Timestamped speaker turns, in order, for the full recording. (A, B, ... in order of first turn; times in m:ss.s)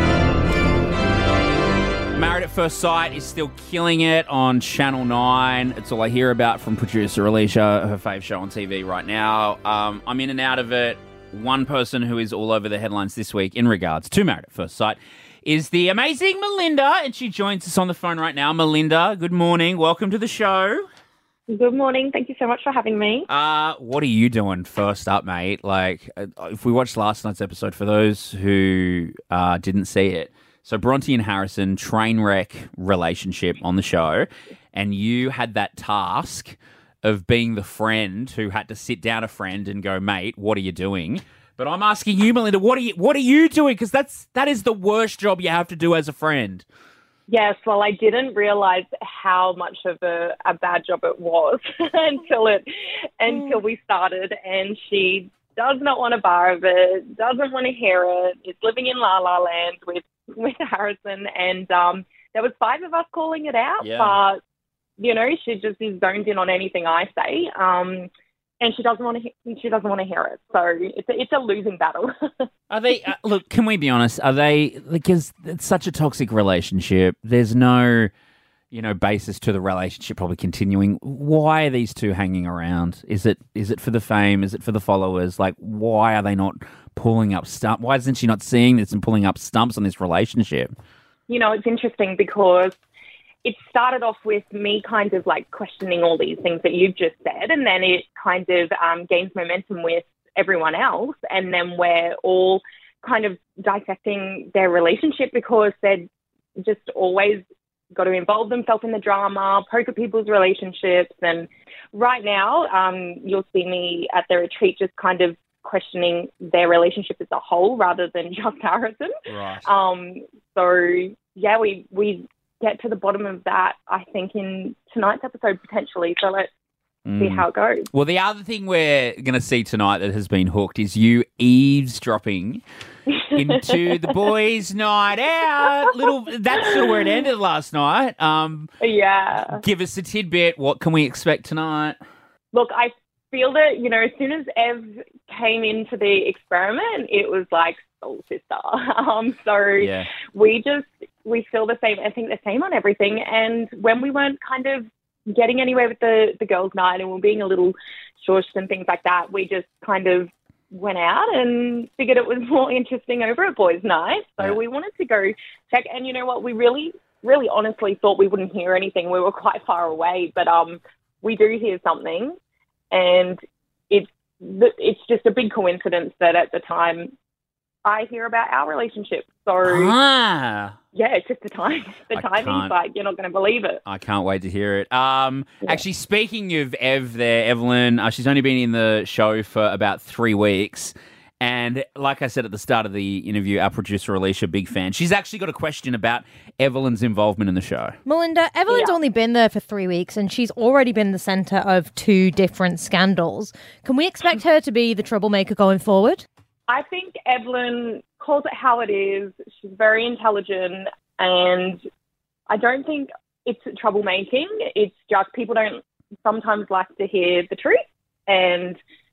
0:02.1-0:20.9 A
0:21.5-0:23.3 B
0:23.3-0:46.6 A
0:47.3-0:52.7 B
0:53.2-1:04.4 B
1:03.8-1:04.2 A
1:05.0-1:08.1 B
1:08.6-1:12.4 B
1:12.7-1:18.1 A
1:18.7-1:30.7 A
1:31.3-1:32.8 B
1:33.4-1:46.1 B
1:46.6-1:47.4 B
1:47.9-1:59.1 B
1:59.3-1:59.7 A
1:59.6-2:06.5 B
2:07.0-2:12.6 A
2:07.2-2:07.9 B
2:13.1-2:13.7 B
2:13.3-2:18.7 A
2:18.8-2:19.6 B
2:19.4-2:22.0 A
2:22.5-2:52.3 B
2:29.8-2:30.1 A
2:52.9-2:53.4 B
2:53.9-2:57.1 B
2:57.8-2:59.9 B
2:59.6-3:00.8 A
3:00.9-3:03.8 B
3:02.1-3:02.7 A
3:03.8-3:18.0 A
3:18.0-3:26.2 C
3:18.7-3:19.0 B
3:26.7-3:31.8 B
3:32.5-3:38.8 B